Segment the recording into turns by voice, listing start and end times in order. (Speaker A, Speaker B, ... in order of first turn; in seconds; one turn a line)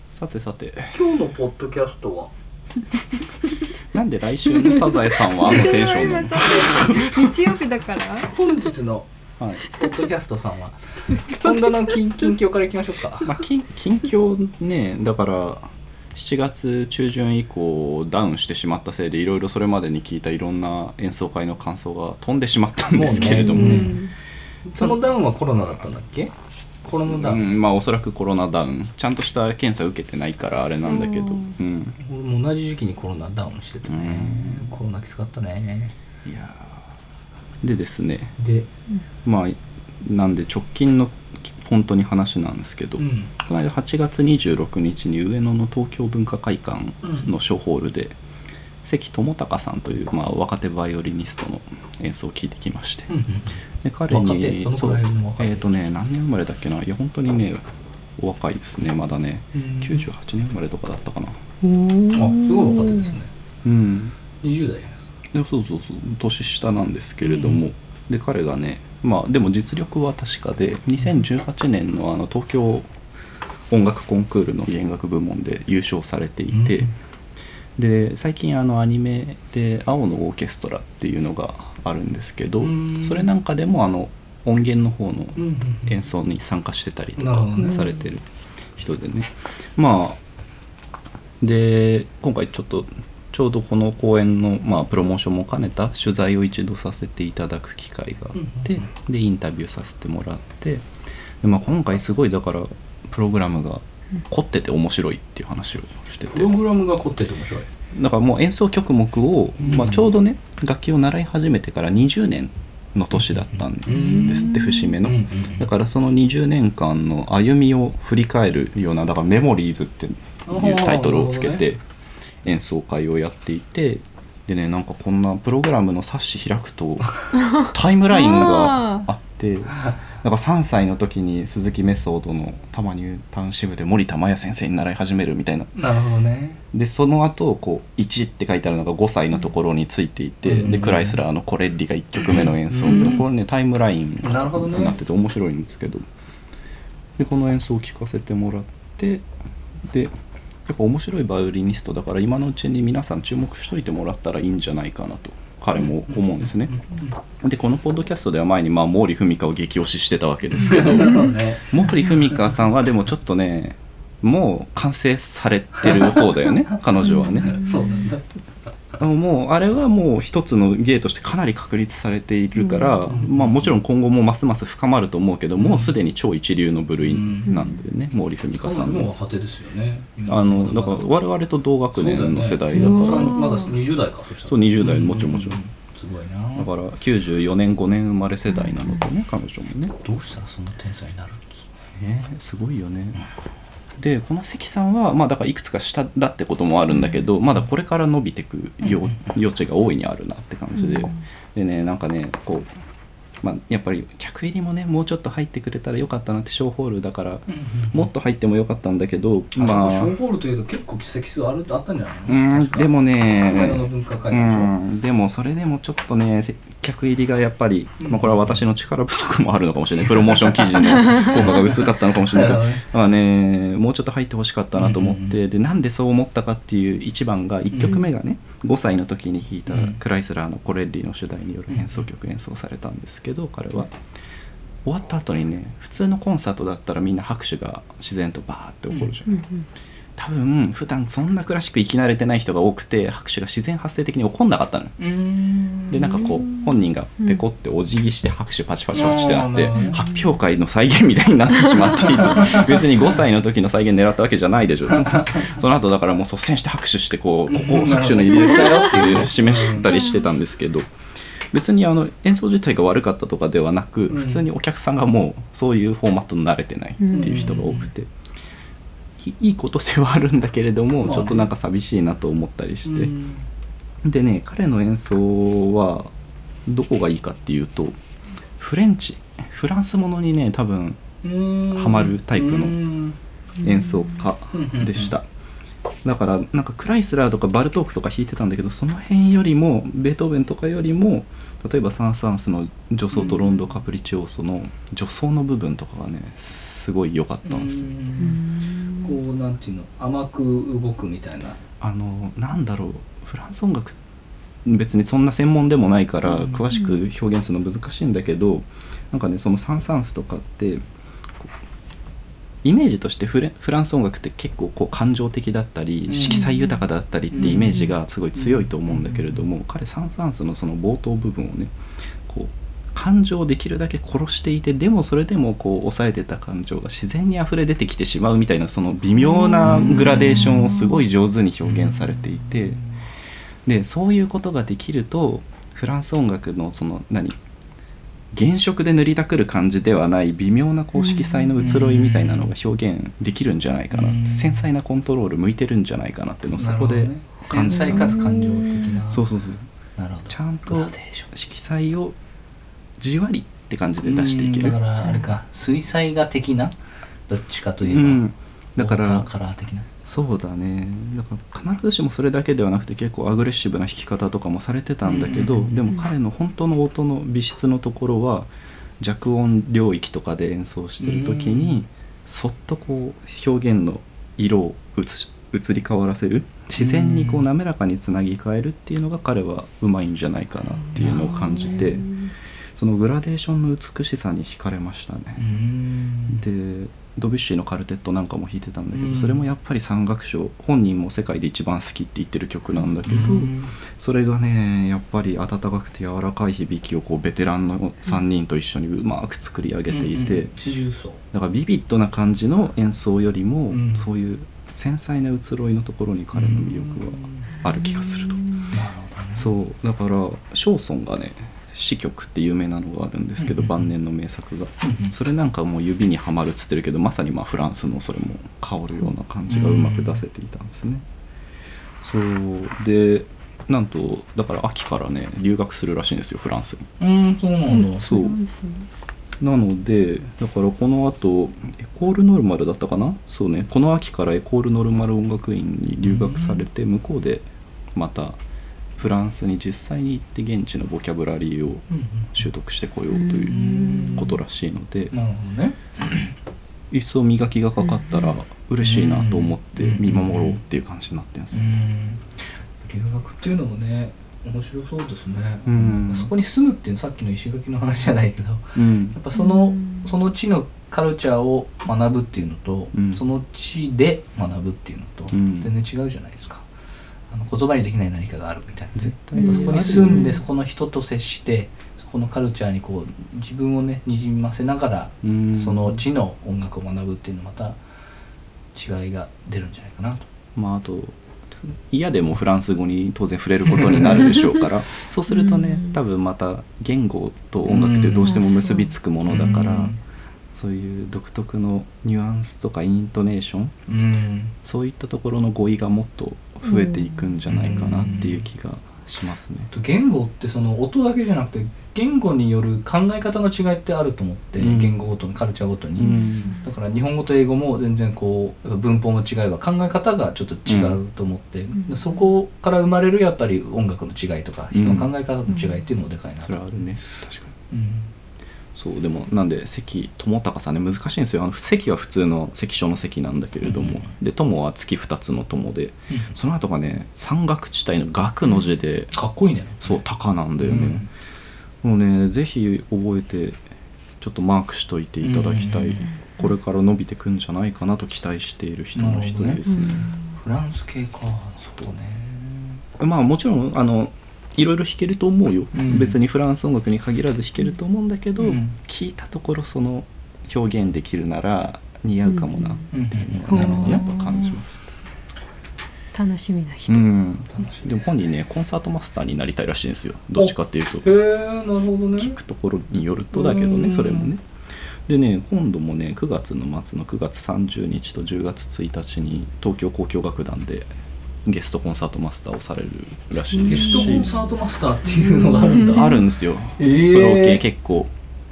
Speaker A: 0.1-0.9
Speaker B: 0.9-2.3
Speaker A: 3.9-7.4
Speaker C: 4.6-8.5
Speaker B: 8.2-9.1
Speaker B: 9.6-13.3
Speaker A: 13.2-24.0
Speaker B: 22.9-24.0
Speaker C: 23.1-24.1
Speaker B: 24.7-26.3
Speaker B: 26.8-27.4
Speaker A: 26.9-32.0
Speaker C: 31.0-31.5
Speaker B: 32.0-35.9
Speaker A: 33.9-34.7
Speaker A: 36.2-36.9
Speaker A: 37.6-38.4
Speaker B: 38.4-38.7
Speaker A: 39.2-48.2
Speaker B: 43.0-43.3
Speaker A: 48.8-53.1
Speaker B: 53.1-53.5
Speaker A: 53.8-57.6
Speaker B: 54.1-55.7
Speaker A: 58.2-61.4
Speaker B: 59.5-60.1
Speaker C: 61.6-63.1
Speaker B: 62.1-63.3
Speaker A: 63.6-64.1
Speaker B: 64.4-65.1
Speaker A: 65.3-72.9
Speaker B: 67.2-67.6
Speaker A: 73.7-76.9
Speaker B: 76.5-76.9
Speaker A: 77.8-88.2
Speaker B: 82.6-83.3
Speaker B: 85.3-85.9
Speaker B: 87.2-87.9
Speaker A: 88.8-90.2
Speaker A: 91.4-100.8
Speaker B: 98.3-98.9
Speaker A: 101.4-106.5
Speaker B: 106.3-107.7
Speaker A: 107.9-121.8
Speaker B: 109.6-110.1
Speaker B: 113.3-115.6
Speaker C: 113.9-115.0
Speaker B: 120.5-121.6
Speaker A: 122.4-135.7
Speaker C: 127.6-129.0
Speaker B: 135.8-136.6
Speaker A: 136.7-146.1
Speaker B: 140.4-141.2
Speaker B: 142.7-143.2
Speaker B: 144.2-144.9
Speaker A: 147.2-149.2
Speaker A: 149.9-150.1
Speaker A: 150.7-156.8
Speaker B: 155.8-157.2
Speaker A: 157.4-167.7
Speaker B: 160.5-161.8
Speaker B: 165.8-166.2
Speaker C: 167.0-168.0
Speaker B: 167.4-168.3
Speaker A: 169.0-179.2
Speaker C: 172.6-173.0
Speaker B: 173.1-173.8
Speaker B: 175.6-175.9
Speaker B: 177.0-177.5
Speaker B: 178.5-181.0
Speaker A: 180.3-183.5
Speaker B: 181.9-186.7
Speaker C: 182.7-183.7
Speaker A: 184.4-185.6
Speaker A: 186.6-189.9
Speaker B: 190.0-191.5
Speaker A: 191.9-193.2
Speaker A: 194.0-202.7
Speaker B: 198.8-199.3
Speaker A: 203.4-210.2
Speaker B: 207.5-208.1
Speaker B: 209.5-212.9
Speaker A: 212.3-233.9
Speaker B: 213.5-214.7
Speaker B: 218.0-218.6
Speaker B: 222.2-222.8
Speaker B: 224.8-225.3
Speaker B: 227.7-228.1
Speaker B: 229.7-230.0
Speaker B: 231.7-232.0
Speaker A: 234.8-239.3
Speaker C: 239.3-239.7
Speaker A: 240.2-244.9
Speaker B: 245.0-246.2
Speaker A: 245.9-260.9
Speaker B: 248.9-249.9
Speaker C: 249.7-250.2
Speaker B: 252.0-252.8
Speaker B: 254.9-255.6
Speaker B: 257.5-259.9
Speaker A: 261.5-268.1
Speaker B: 264.1-264.4
Speaker C: 267.0-267.6
Speaker B: 267.1-267.9
Speaker A: 269.2-273.1
Speaker B: 271.0-271.4
Speaker B: 272.9-273.4
Speaker A: 274.0-276.1
Speaker A: 276.7-278.0
Speaker A: 278.6-281.0
Speaker B: 281.2-283.2
Speaker A: 281.7-282.8
Speaker A: 283.6-285.3
Speaker C: 283.6-284.1
Speaker B: 284.5-285.1
Speaker A: 286.0-297.9
Speaker B: 297.4-298.4
Speaker C: 298.2-299.1
Speaker B: 299.0-301.6
Speaker A: 301.8-304.0
Speaker A: 304.6-310.8
Speaker A: 312.6-321.7
Speaker B: 316.1-316.4
Speaker B: 317.3-317.8
Speaker C: 317.4-317.9
Speaker B: 318.4-319.4
Speaker A: 322.3-332.8
Speaker C: 329.4-331.0
Speaker B: 329.7-330.1
Speaker B: 331.7-332.8
Speaker A: 333.7-337.4
Speaker A: 338.3-348.2
Speaker C: 341.0-341.6
Speaker B: 341.6-342.5
Speaker B: 343.9-344.7
Speaker B: 346.6-349.2
Speaker C: 347.8-348.9
Speaker A: 349.1-349.7
Speaker B: 350.0-351.3
Speaker A: 350.3-352.2
Speaker A: 353.0-354.8
Speaker B: 354.0-356.7
Speaker B: 357.3-358.2
Speaker A: 357.9-359.3
Speaker B: 358.8-359.9
Speaker A: 360.1-382.1
Speaker B: 365.0-365.8
Speaker B: 371.0-371.8
Speaker B: 376.7-377.5
Speaker B: 381.0-381.9
Speaker C: 381.1-382.1
Speaker A: 382.8-385.4
Speaker B: 385.4-386.4
Speaker A: 386.3-400.5
Speaker B: 388.9-389.4
Speaker B: 393.1-393.7
Speaker B: 399.9-401.2
Speaker A: 401.3-408.5
Speaker B: 403.7-404.1
Speaker B: 406.3-407.5
Speaker C: 407.7-408.3
Speaker B: 408.7-409.5
Speaker A: 409.4-421.0
Speaker B: 413.4-413.9
Speaker B: 414.8-415.1
Speaker B: 419.5-420.2
Speaker A: 422.0-426.9
Speaker B: 427.0-428.0
Speaker C: 427.7-428.9
Speaker A: 428.0-428.4
Speaker A: 429.4-438.4
Speaker B: 436.0-436.7
Speaker A: 439.0-445.1
Speaker B: 441.9-442.4
Speaker C: 443.1-444.3
Speaker B: 443.5-444.4
Speaker B: 445.1-446.3
Speaker A: 446.9-451.6
Speaker C: 448.0-448.2
Speaker B: 448.8-450.6
Speaker B: 451.5-466.6
Speaker A: 455.7-456.3
Speaker A: 458.8-459.2
Speaker C: 459.4-460.1
Speaker A: 462.9-463.2
Speaker A: 465.3-465.7
Speaker B: 467.3-477.8
Speaker A: 469.0-470.4
Speaker C: 469.4-470.4
Speaker A: 475.2-476.0
Speaker B: 478.8-480.3
Speaker A: 480.6-489.9
Speaker B: 483.7-484.4
Speaker C: 485.3-485.9
Speaker B: 487.7-488.5
Speaker C: 488.2-488.9
Speaker B: 489.3-490.0
Speaker A: 490.5-493.7
Speaker B: 493.9-494.5
Speaker A: 494.6-499.7
Speaker C: 496.7-497.3
Speaker B: 497.5-498.4
Speaker B: 499.7-516.7
Speaker A: 504.6-505.0
Speaker A: 506.0-506.6
Speaker C: 506.1-506.6
Speaker A: 510.7-511.0
Speaker A: 514.7-515.1
Speaker C: 515.5-515.8
Speaker A: 516.4-517.5
Speaker B: 517.7-518.1
Speaker A: 518.8-529.1
Speaker B: 523.6-524.1
Speaker B: 529.1-530.0
Speaker A: 529.8-531.0
Speaker B: 530.6-531.1
Speaker A: 531.8-533.6
Speaker A: 534.2-540.1
Speaker B: 535.2-536.1
Speaker B: 538.9-542.8
Speaker C: 539.6-540.1
Speaker A: 543.0-554.8
Speaker B: 545.7-546.2
Speaker B: 548.4-548.8
Speaker C: 552.3-552.8
Speaker B: 552.9-554.0
Speaker C: 553.5-554.6
Speaker C: 556.1-557.1
Speaker A: 556.9-561.1
Speaker B: 557.5-558.2
Speaker B: 560.4-562.3
Speaker A: 562.2-564.4
Speaker B: 563.3-564.3
Speaker A: 565.1-570.9
Speaker A: 571.4-574.4
Speaker C: 573.6-574.2
Speaker B: 573.6-576.1
Speaker C: 575.1-576.2
Speaker A: 575.6-578.1
Speaker B: 576.8-577.6